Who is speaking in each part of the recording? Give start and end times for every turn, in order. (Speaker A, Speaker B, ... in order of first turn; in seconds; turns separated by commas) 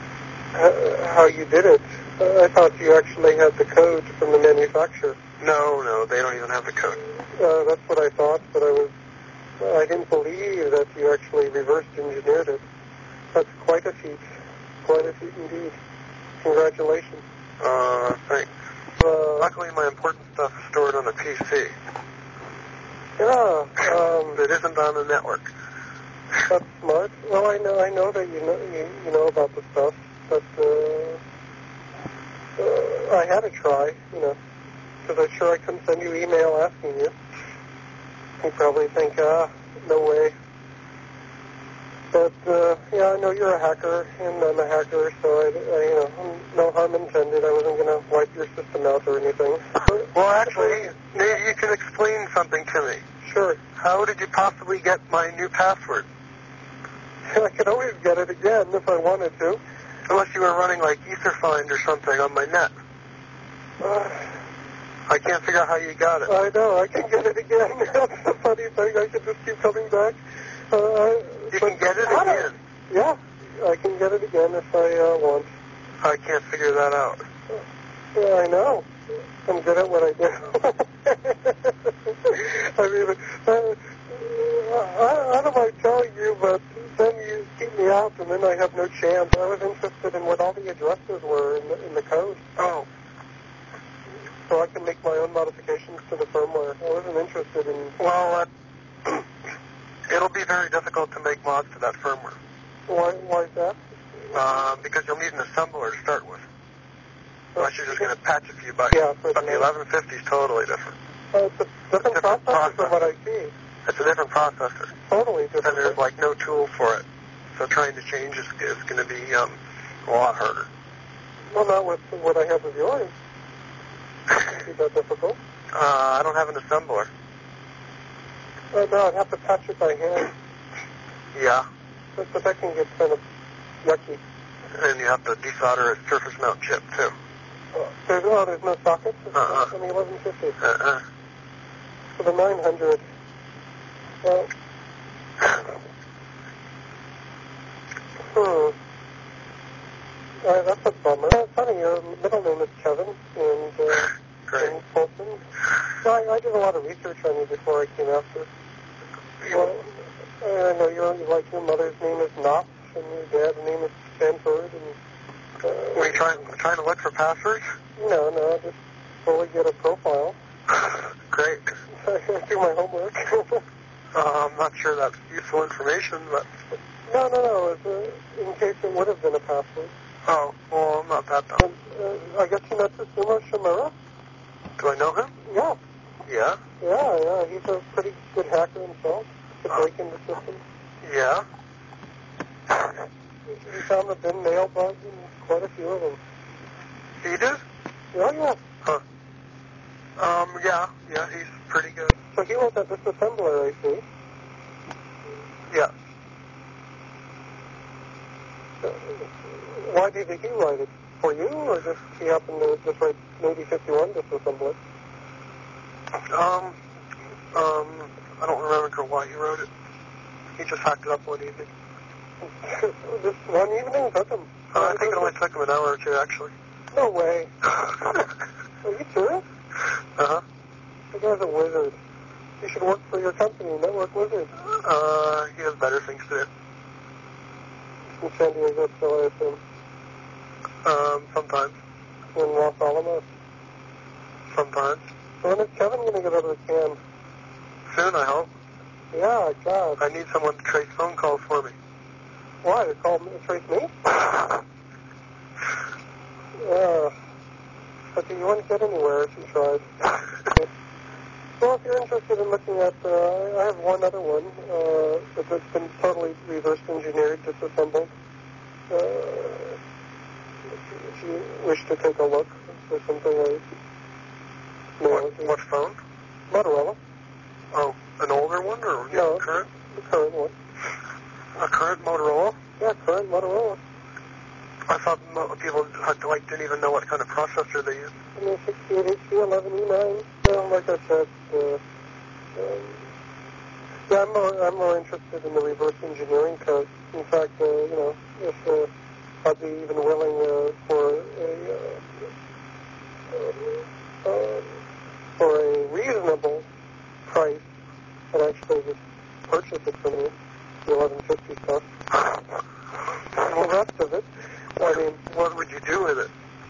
Speaker A: 0.5-5.2, Speaker B: 5.4-7.0, Speaker A: 7.3-8.9, Speaker A: 9.6-12.6, Speaker A: 13.3-14.2, Speaker A: 14.8-15.8, Speaker A: 16.4-17.2, Speaker B: 17.6-18.5, Speaker A: 19.0-19.5, Speaker B: 19.4-21.8, Speaker A: 23.2-24.4, Speaker B: 23.8-25.5, Speaker A: 26.4-31.2, Speaker A: 32.6-34.4, Speaker A: 35.0-37.1, Speaker A: 38.4-40.4, Speaker A: 42.1-50.9, Speaker B: 50.1-53.0, Speaker A: 53.2-53.6, Speaker B: 53.8-56.1, Speaker A: 57.3-59.6, Speaker B: 60.1-62.7, Speaker A: 63.8-64.3, Speaker B: 65.1-66.3, Speaker A: 66.3-70.2, Speaker A: 70.7-75.5, Speaker B: 71.5-72.6, Speaker B: 76.0-77.2, Speaker A: 78.1-78.9, Speaker A: 79.5-92.4, Speaker B: 92.6-92.9, Speaker A: 94.5-98.0, Speaker B: 98.0-98.5, Speaker B: 100.1-102.4, Speaker A: 102.9-103.8, Speaker B: 104.3-106.5, Speaker A: 107.5-108.1, Speaker B: 107.6-111.0, Speaker A: 108.9-109.7, Speaker A: 111.3-113.5, Speaker B: 112.0-113.0, Speaker B: 113.9-114.9, Speaker A: 115.1-116.0, Speaker B: 115.6-120.7, Speaker A: 121.5-123.1, Speaker A: 124.3-125.4, Speaker B: 125.7-127.1, Speaker A: 128.7-130.3, Speaker B: 131.3-131.7, Speaker A: 132.2-133.2, Speaker A: 133.8-134.2, Speaker B: 134.8-137.2, Speaker A: 137.7-140.6, Speaker B: 139.3-139.7, Speaker B: 140.6-141.0, Speaker A: 142.2-143.0, Speaker A: 144.2-144.5, Speaker A: 148.3-148.8, Speaker A: 150.4-155.4, Speaker A: 155.9-158.5, Speaker B: 159.4-159.7, Speaker A: 159.5-159.9, Speaker A: 160.4-165.0, Speaker A: 165.6-166.2, Speaker B: 165.9-167.7, Speaker A: 168.0-170.4, Speaker B: 170.8-171.7, Speaker A: 171.9-173.7, Speaker B: 174.1-176.7, Speaker A: 177.1-179.9, Speaker B: 180.3-181.7, Speaker A: 181.6-183.9, Speaker B: 184.8-185.3, Speaker A: 185.4-185.8, Speaker B: 186.3-186.6, Speaker A: 186.8-190.6, Speaker B: 191.0-191.4, Speaker A: 193.5-196.2, Speaker B: 197.2-197.6, Speaker A: 198.1-198.6, Speaker B: 200.2-202.1, Speaker A: 202.2-204.0, Speaker A: 208.8-214.8, Speaker B: 216.3-216.8, Speaker B: 217.5-219.7, Speaker B: 220.6-221.7, Speaker A: 222.4-225.3, Speaker B: 224.7-226.5, Speaker A: 226.9-227.7, Speaker A: 228.8-229.4, Speaker B: 230.2-230.4, Speaker A: 231.1-232.0, Speaker A: 232.6-234.5, Speaker B: 234.6-236.5, Speaker A: 238.2-239.6, Speaker B: 240.8-241.8, Speaker A: 242.3-243.2, Speaker B: 244.5-245.0, Speaker A: 245.4-247.0, Speaker B: 247.9-248.5, Speaker A: 249.1-250.0, Speaker B: 250.0-251.8, Speaker A: 252.6-254.1, Speaker A: 256.6-257.1, Speaker A: 258.1-259.9, Speaker A: 261.6-268.1, Speaker A: 268.9-269.8, Speaker A: 270.9-273.6, Speaker A: 275.0-275.6, Speaker B: 275.1-276.0, Speaker A: 276.5-277.0, Speaker B: 277.7-279.7, Speaker A: 279.1-280.5, Speaker B: 281.6-282.6, Speaker A: 282.8-283.8, Speaker B: 284.9-288.1, Speaker A: 288.4-291.8, Speaker A: 292.6-293.0, Speaker A: 294.1-298.9, Speaker A: 299.4-302.1, Speaker A: 303.3-304.7, Speaker A: 305.4-306.7, Speaker A: 307.3-307.6, Speaker A: 308.3-310.3, Speaker A: 310.9-311.9, Speaker B: 313.4-313.7, Speaker A: 313.4-315.2, Speaker B: 314.8-316.3